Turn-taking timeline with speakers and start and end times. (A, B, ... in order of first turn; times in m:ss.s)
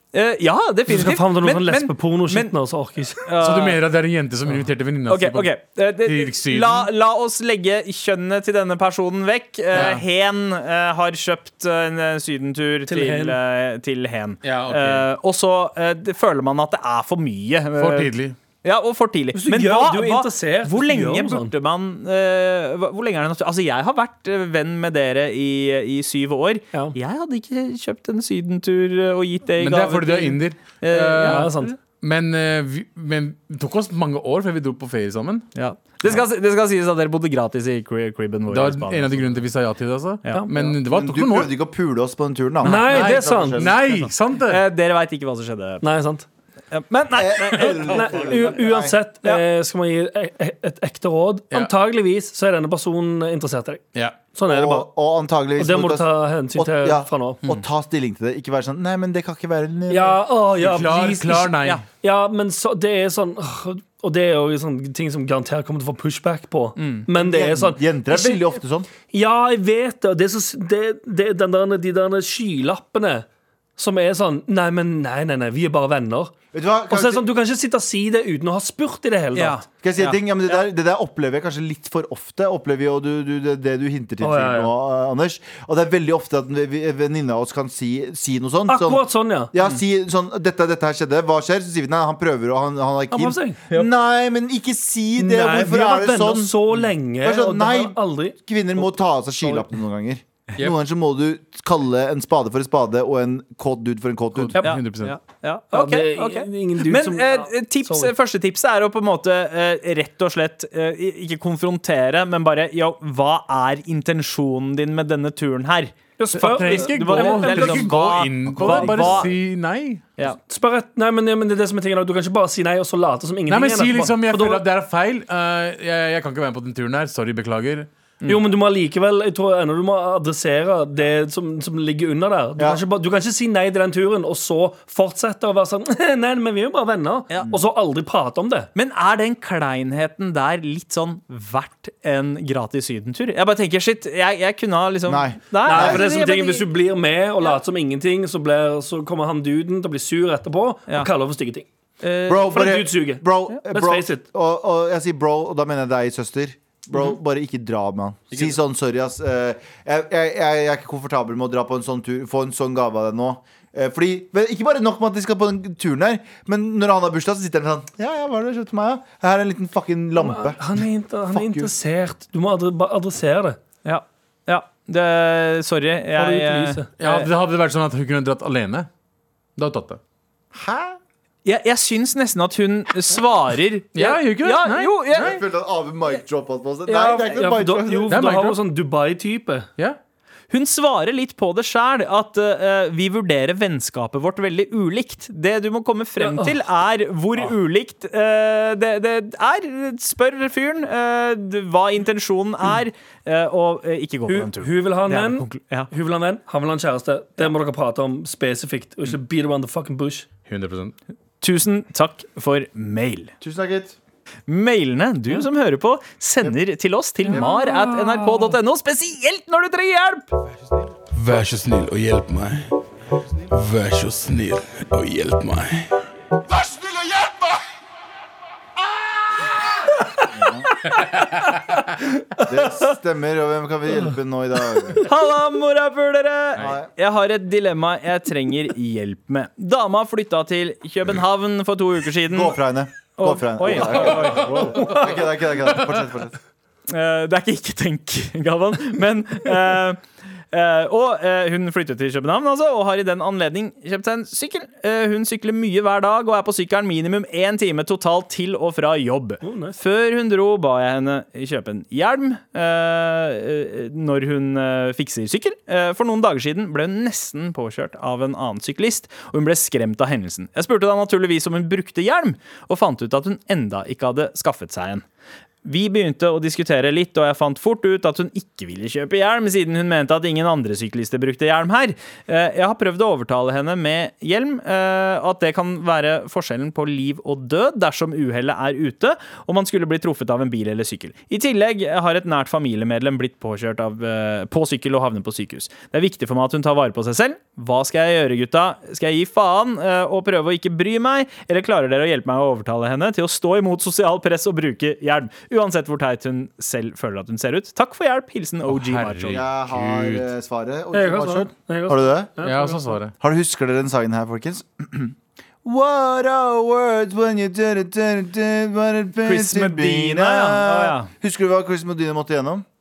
0:00.1-0:02.5 A
0:00.9-0:03.2 B
0:03.2-0:03.8 A
0:03.4-0:06.9 C
0:05.1-0:18.1 A
0:09.7-0:10.0 C
0:12.9-0:13.4 B
0:14.4-0:15.1 C
0:17.8-0:18.4 C
0:18.6-0:31.8 A
0:19.3-0:21.5 B
0:29.6-0:35.5 C
0:31.2-0:31.8 B
0:35.6-0:39.4 A
0:38.5-0:41.5 C
0:40.7-0:43.8 D
0:42.6-0:43.6 B
0:42.7-0:44.6 C
0:43.9-0:45.8 A
0:45.8-0:46.2 B
0:46.7-0:48.5 A
0:47.1-0:49.0 D
0:47.8-0:54.9 B
0:54.5-1:00.2 D
0:55.6-0:57.4 B
0:59.9-1:08.5 B
1:00.6-1:01.8 C
1:06.8-1:07.1 A
1:07.1-1:08.9 D
1:09.1-1:13.3 B
1:13.8-1:16.4 B
1:16.5-1:17.2 D
1:16.9-1:19.6 B
1:19.4-1:20.2 A
1:19.8-1:36.6 D
1:24.2-1:24.7 B
1:28.7-1:29.5 B
1:33.1-1:33.6 B
1:35.2-1:39.7 B
1:37.2-1:44.6 D
1:44.4-1:45.2 C
1:44.6-1:55.9 A
1:45.7-1:48.1 B
1:56.2-1:57.9 B
1:56.4-2:00.0 C
1:56.5-1:59.3 A
1:58.6-1:59.3 D
2:00.5-2:04.6 B
2:03.5-2:07.9 C
2:08.2-2:18.7 B
2:18.8-2:26.6 A
2:25.1-2:26.1 D
2:25.6-2:31.7 B
2:32.0-2:32.6 A
2:32.3-2:51.7 D
2:32.5-2:34.2 B
2:50.2-2:53.6 B
2:53.8-2:57.3 A
2:56.1-2:56.9 B
2:57.0-2:58.9 C
2:59.6-3:00.0 C
3:00.5-3:01.0 D
3:01.4-3:05.4 A
3:04.0-3:05.4 C
3:05.1-3:08.2 D
3:06.9-3:09.7 B
3:08.1-3:08.6 C
3:10.5-3:25.9 A
3:16.2-3:16.6 B
3:24.3-3:30.3 B
3:30.5-3:30.9 C
3:31.4-3:33.3 A
3:33.4-3:34.0 D
3:34.5-3:40.3 A
3:37.3-3:38.5 B
3:41.1-3:42.6 E
3:43.5-3:45.9 E
3:50.3-3:50.7 D
3:51.4-3:51.7 B
3:52.4-3:55.1 D
3:55.0-4:02.6 A
3:56.6-3:56.9 D
4:02.3-4:06.4 D
4:03.2-4:05.1 A
4:03.8-4:04.6 C
4:06.9-4:35.0 A
4:19.4-4:19.8 B
4:35.6-5:09.4 A
5:08.6-5:10.3 C
5:09.3-5:12.3 D
5:10.9-5:13.0 B
5:12.4-5:13.1 C
5:13.2-5:22.6 D
5:19.2-5:21.1 A